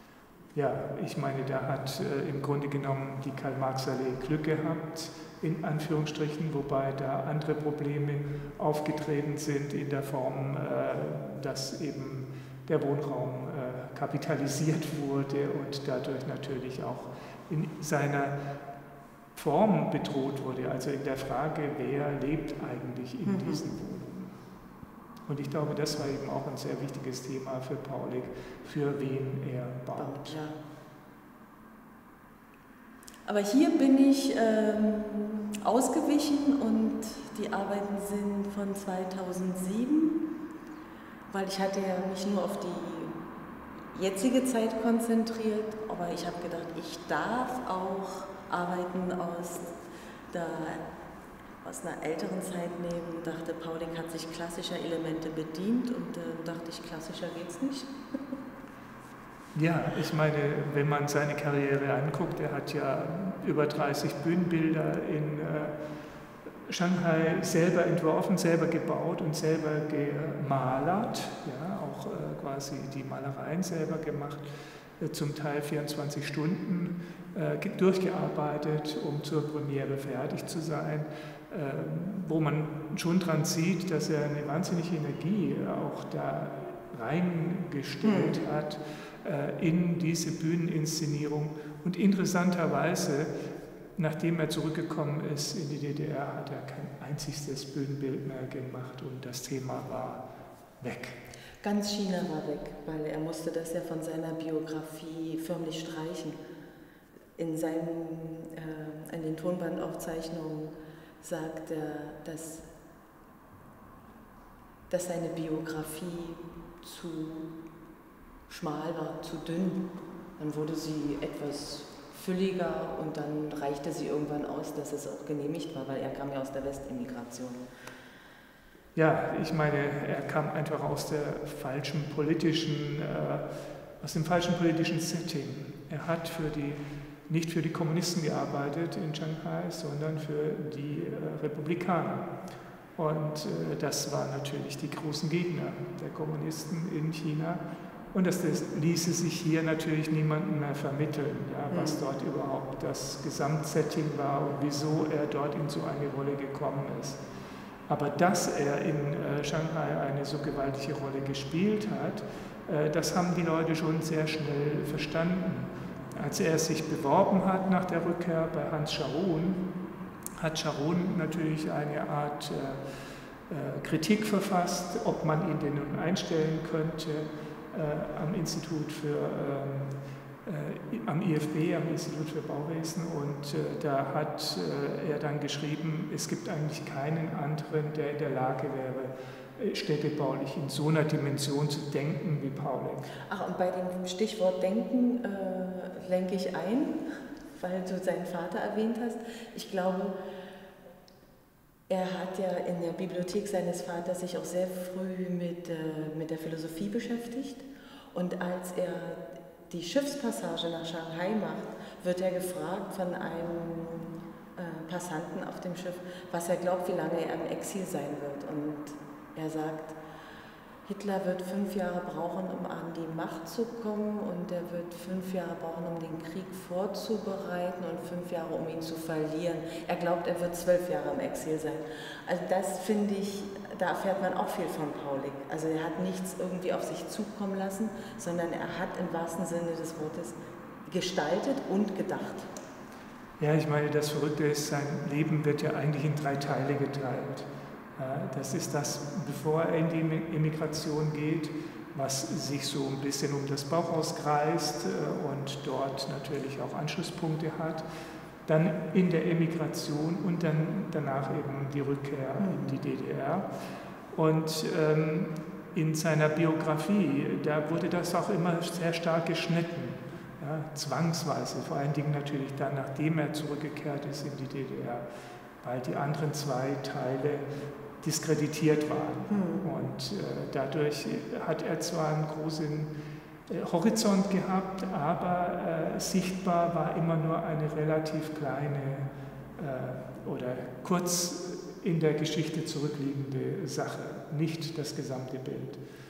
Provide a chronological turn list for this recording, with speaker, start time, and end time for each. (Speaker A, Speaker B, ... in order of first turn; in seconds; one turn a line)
Speaker A: 0.5-18.3
Speaker A: 19.4-24.3
Speaker B: 23.2-23.7
Speaker A: 25.3-30.3
Speaker B: 29.9-30.6
Speaker B: 33.2-40.2
Speaker B: 41.3-43.2
Speaker B: 43.9-49.8
Speaker B: 50.3-50.8
Speaker B: 51.6-57.9
Speaker A: 59.5-65.7
Speaker A: 66.7-74.5
Speaker A: 75.0-93.3
Speaker B: 88.0-88.4
Speaker A: 94.0-100.2
Speaker A: 100.8-101.2
Speaker B: 101.6-106.4
Speaker B: 107.4-112.7
Speaker B: 114.9-117.5
Speaker B: 118.5-119.8
Speaker B: 120.4-127.7
Speaker A: 128.9-133.4
Speaker A: 134.0-142.3
Speaker A: 142.9-147.6
Speaker A: 148.1-157.2
Speaker B: 151.7-152.0
Speaker A: 157.9-169.6
Speaker A: 170.4-172.8
Speaker A: 173.5-179.9
Speaker A: 180.4-193.1
Speaker B: 193.3-197.0
Speaker B: 197.6-200.1
Speaker B: 201.9-220.0
Speaker B: 220.8-242.5
Speaker A: 243.4-257.8
Speaker A: 258.4-263.5
Speaker B: 262.4-262.8
Speaker A: 264.1-275.0
Speaker A: 275.6-277.4
Speaker A: 278.0-282.9
Speaker B: 279.3-279.7
Speaker A: 283.5-295.8